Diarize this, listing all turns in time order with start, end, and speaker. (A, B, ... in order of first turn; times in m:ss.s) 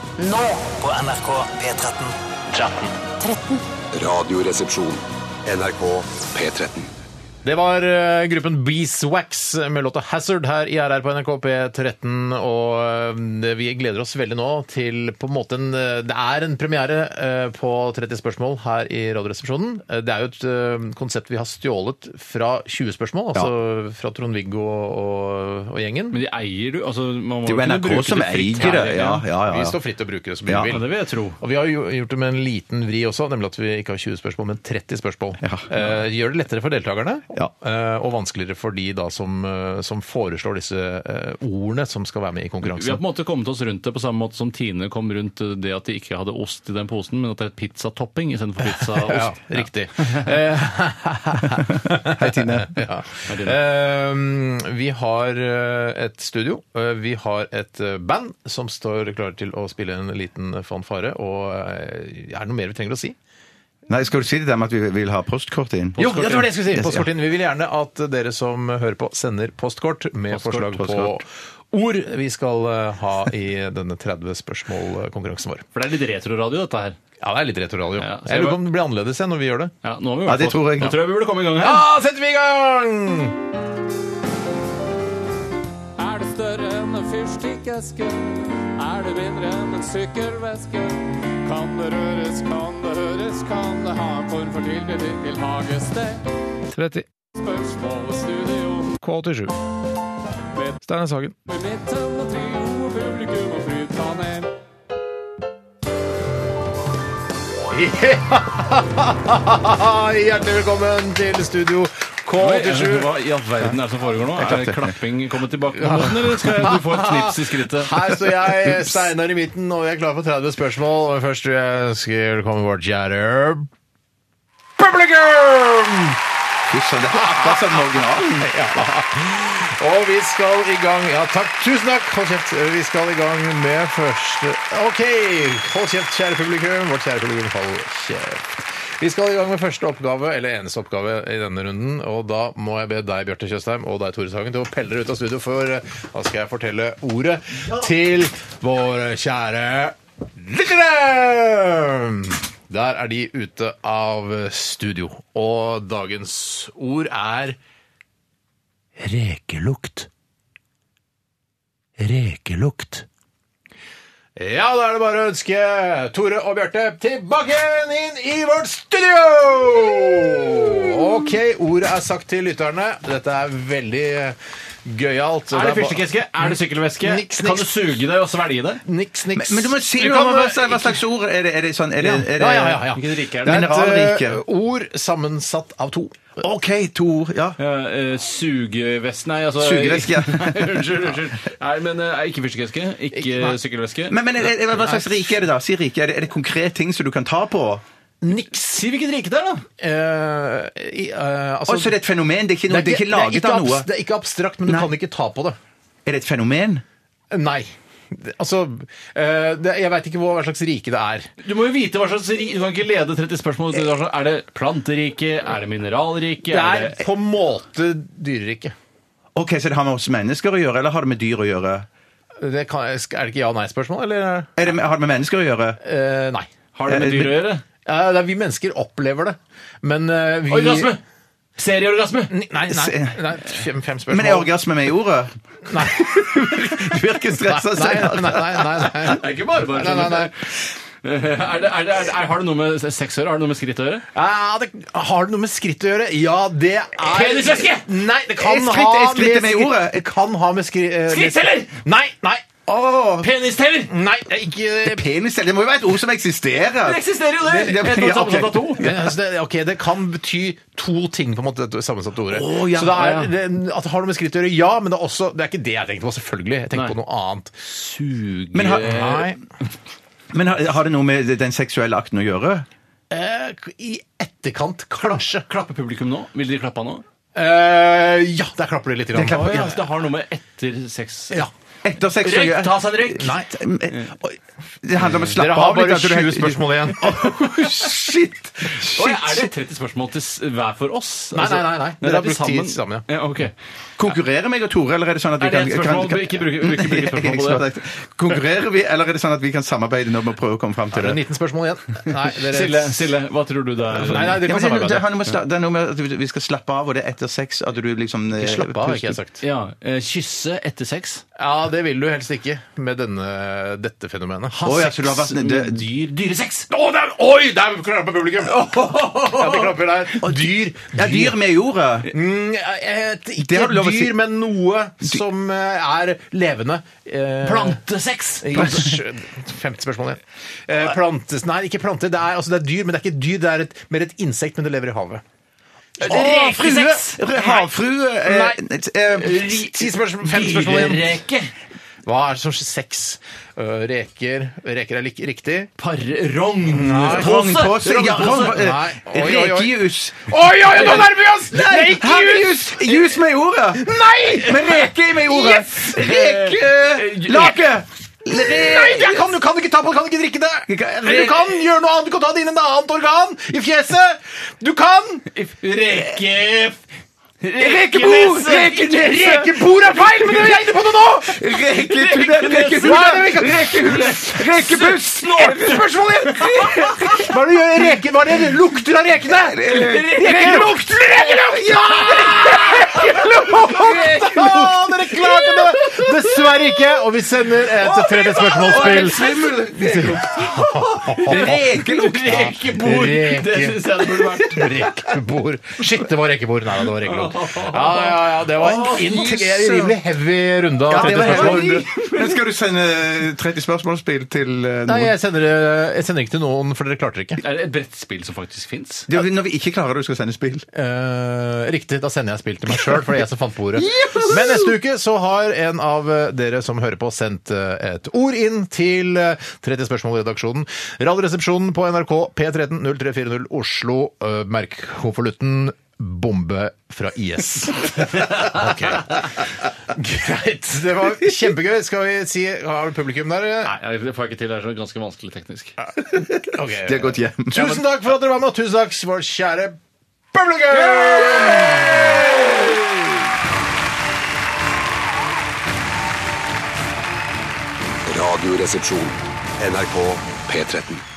0:00.2-0:03.6 A
0:03.9-0:06.9 B
0:07.4-0:26.2 C
0:26.1-0:29.2 D
0:27.4-0:29.8 E
0:29.5-0:30.9 C
0:30.5-0:30.8 E
0:30.6-0:31.4 D
0:31.4-0:43.0 C
0:35.4-0:35.7 E
0:42.6-0:49.7 D
0:48.6-1:03.2 C
0:52.1-0:52.8 E
0:53.3-0:53.6 D
1:03.9-1:07.1 E
1:06.0-1:06.5 D
1:06.0-1:15.6 C
1:10.3-1:10.9 D
1:10.6-1:11.2 E
1:15.8-1:17.0 D
1:17.2-1:19.7 C
1:18.0-1:18.6 D
1:19.8-1:21.9 D
1:20.3-1:21.0 E
1:21.6-1:23.4 C
1:26.0-1:36.2 F
1:36.7-1:37.1 C
1:37.4-1:39.0 F
1:39.0-1:39.6 C
1:40.5-1:40.8 F
1:40.8-1:41.4 C
1:41.5-1:44.5 F
1:47.7-1:53.1 C
1:52.4-1:58.2 D
1:54.4-1:55.0 E
1:55.8-2:03.7 C
2:04.8-2:06.2 C
2:06.7-2:08.5 E
2:07.1-2:37.6 C
2:39.0-2:40.1 C
2:42.0-2:43.0 C
2:44.4-2:57.7 C
2:55.5-2:58.8 D
2:58.8-3:01.0 C
2:59.4-3:04.4 E
3:02.0-3:06.3 C
3:02.9-3:03.6 D
3:06.4-3:07.6 E
3:07.6-3:14.2 D
3:09.6-3:11.2 E
3:13.1-3:13.6 C
3:14.1-3:17.8 E
3:14.7-3:15.3 C
3:18.2-3:18.8 C
3:18.4-3:19.6 D
3:19.8-3:22.0 C
3:21.7-3:23.9 E
3:22.7-3:25.6 C
3:24.7-3:24.9 E
3:26.1-3:26.8 E
3:27.3-3:31.3 C
3:31.4-3:37.0 D
3:36.5-3:38.7 C
3:39.4-3:41.9 E
3:42.4-3:44.5 C
3:44.6-3:45.8 E
3:45.8-3:46.5 C
3:46.8-3:47.6 D
3:46.9-3:47.5 E
3:47.8-3:50.9 C
3:50.5-3:51.0 D
3:51.6-3:52.3 D
3:52.3-3:54.5 C
3:52.7-3:53.4 E
3:54.1-3:58.9 E
3:55.7-4:00.3 C
3:59.0-4:04.0 D
4:04.1-4:12.6 C
4:07.0-4:07.9 D
4:08.3-4:10.1 E
4:11.1-4:11.8 D
4:12.7-4:13.0 E
4:13.2-4:13.9 D
4:13.9-4:15.0 C
4:14.8-4:19.1 E
4:16.8-4:18.9 D
4:18.8-4:27.5 C
4:22.3-4:23.2 E
4:23.0-4:23.3 D
4:27.6-4:29.3 D
4:28.5-4:29.2 E
4:28.6-4:29.4 C
4:30.3-4:32.7 E
4:33.1-4:35.4 C
4:35.5-4:37.0 D
4:37.4-4:39.8 C
4:39.1-4:39.8 E
4:39.2-4:41.5 D
4:41.8-4:49.5 E
4:42.2-4:43.3 D
4:43.2-4:43.5 C
4:45.2-4:47.8 C
4:48.8-4:53.5 D
4:51.3-4:53.0 C
4:54.0-5:01.2 E
4:55.4-4:57.6 D
5:00.9-5:03.0 C
5:02.3-5:04.4 D
5:03.9-5:05.1 C
5:04.0-5:09.2 E
5:08.4-5:09.4 C
5:09.4-5:11.2 D
5:11.4-5:14.6 C
5:14.5-5:16.7 D
5:14.6-5:15.9 E
5:16.7-5:21.4 C
5:20.1-5:22.1 E
5:22.1-5:27.8 C
5:23.4-5:24.2 E
5:27.4-5:28.9 D
5:28.4-5:35.2 C
5:36.0-5:37.6 D
5:36.0-5:39.6 E
5:38.2-5:38.6 C
5:39.2-5:41.2 C
5:39.2-5:41.5 D
5:42.0-5:45.7 C
5:45.8-5:48.6 D
5:46.7-5:47.3 C
5:47.1-5:59.3 E
5:48.3-5:55.5 C
5:55.4-5:57.6 D
5:58.3-6:05.3 C
6:00.7-6:01.6 E
6:05.4-6:06.8 D
6:07.4-6:09.4 D
6:07.6-6:10.6 E
6:08.7-6:11.4 C
6:11.2-6:17.9 E
6:11.7-6:17.2 D
6:12.8-6:13.8 C
6:15.4-6:31.6 C
6:19.2-6:26.7 E
6:19.6-6:21.4 D
6:22.0-6:24.5 D
6:27.7-6:32.6 E
6:28.7-6:29.5 D
6:31.2-6:34.9 D
6:32.3-6:41.8 C
6:37.0-6:39.3 D
6:38.6-6:40.0 E
6:40.9-6:45.2 E
6:40.9-6:42.4 D
6:44.9-6:47.4 C
6:47.4-6:49.1 D
6:49.1-6:50.7 E
6:50.7-7:13.8 C
6:53.8-6:54.7 E
7:13.6-7:15.8 D
7:16.1-7:17.8 E
7:16.4-7:19.8 C
7:20.3-7:22.8 C
7:28.1-7:31.0 B